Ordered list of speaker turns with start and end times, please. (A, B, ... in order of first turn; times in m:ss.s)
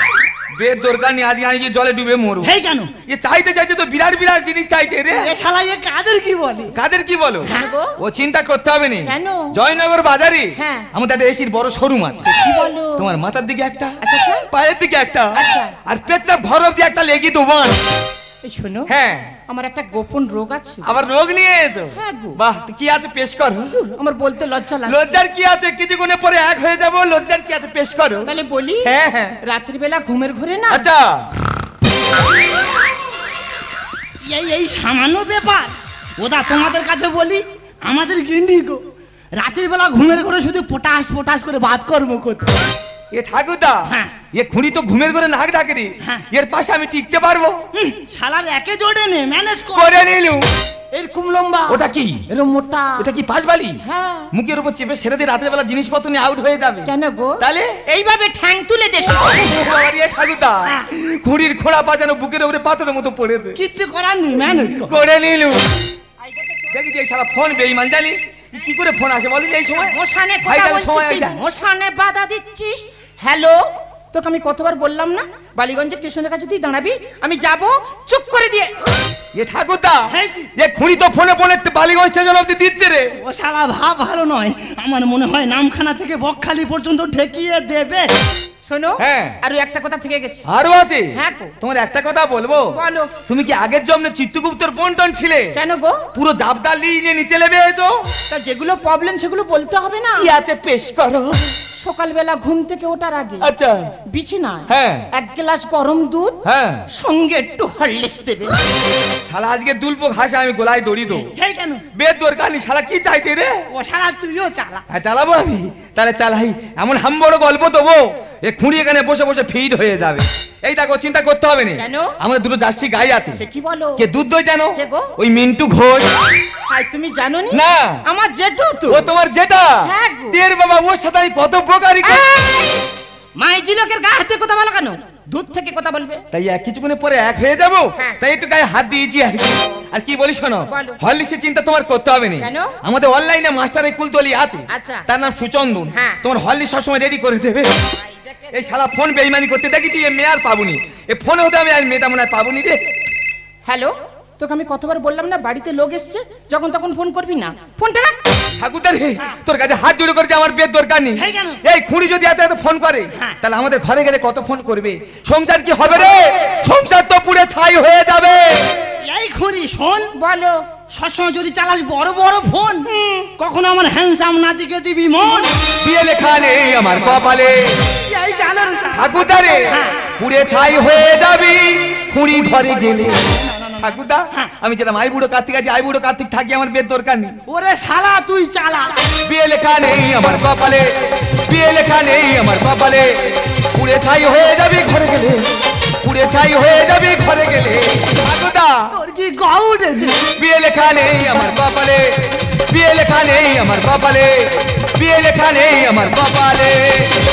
0:00.6-0:02.5 A
0:02.4-0:02.9 B
0:03.0-0:05.3 A
0:05.1-0:06.7 B
0:06.7-0:12.3 A
0:07.4-0:08.0 C
0:09.0-0:09.5 C
0:10.6-0:10.9 C
0:12.2-0:13.0 C
0:13.0-0:14.0 A
0:14.0-0:14.5 C
0:14.5-0:17.8 A
0:15.4-0:15.8 C
0:18.4-0:18.9 C
0:18.9-0:19.3 A
0:19.5-0:20.9 C
0:20.8-0:23.8 A
0:21.9-0:22.4 C
0:23.7-0:25.2 C
0:24.9-0:28.3 A
0:28.2-0:30.9 C
0:28.8-0:29.4 A
0:30.7-0:31.3 A
0:34.2-0:38.8 B
0:39.4-0:42.5 B
0:43.1-0:47.6 A
0:47.8-0:50.0 B
0:49.8-0:50.4 A
0:50.9-0:53.1 C
0:51.7-0:52.2 A
0:53.0-0:53.8 A
0:53.8-0:54.3 C
0:54.3-0:57.7 A
0:56.8-0:59.4 C
0:59.3-1:03.6 A
1:03.6-1:05.0 B
1:04.6-1:05.6 A
1:06.3-1:06.6 C
1:06.7-1:11.4 A
1:09.8-1:13.6 C
1:14.1-1:18.8 C
1:19.3-1:23.1 A
1:20.1-1:20.5 B
1:23.2-1:28.1 B
1:28.6-1:30.4 C
1:29.0-1:29.4 A
1:30.5-1:32.7 A
1:31.1-1:31.5 C
1:32.7-1:33.1 C
1:33.3-1:35.6 A
1:35.5-1:36.0 C
1:36.1-1:38.0 A
1:38.3-1:40.3 C
1:40.2-1:41.4 A
1:41.8-1:43.5 C
1:43.4-1:43.9 A
1:44.1-1:48.6 C
1:44.7-1:45.1 A
1:46.4-1:46.8 A
1:49.3-1:51.3 A
1:51.1-1:51.8 B
1:51.9-1:53.6 A
1:53.7-1:54.8 B
1:54.9-2:03.4 A
2:01.8-2:02.1 C
2:03.4-2:04.0 C
2:04.0-2:06.1 A
2:04.8-2:05.1 C
2:06.7-2:09.1 C
2:07.5-2:08.0 A
2:08.9-2:12.2 A
2:09.8-2:10.4 C
2:12.0-2:12.8 C
2:13.4-2:16.2 C
2:16.3-2:27.7 A
2:20.7-2:21.0 C
2:22.4-2:22.8 C
2:24.7-2:25.0 C
2:25.9-2:26.2 C
2:28.0-2:28.5 C
2:28.5-2:32.8 A
2:33.6-2:38.1 C
2:38.6-2:48.5 A
2:41.2-2:41.6 B
2:49.0-2:50.1 B
2:50.2-2:50.6 C
2:50.9-2:52.8 B
2:52.9-2:53.3 C
2:53.4-2:55.5 B
2:55.8-2:57.7 A
2:58.0-3:00.1 B
2:58.9-3:03.2 A
3:02.5-3:04.5 B
3:03.8-3:07.4 A
3:07.5-3:09.1 B
3:09.2-3:15.4 A
3:16.0-3:18.9 A
3:18.9-3:20.2 B
3:20.3-3:27.1 A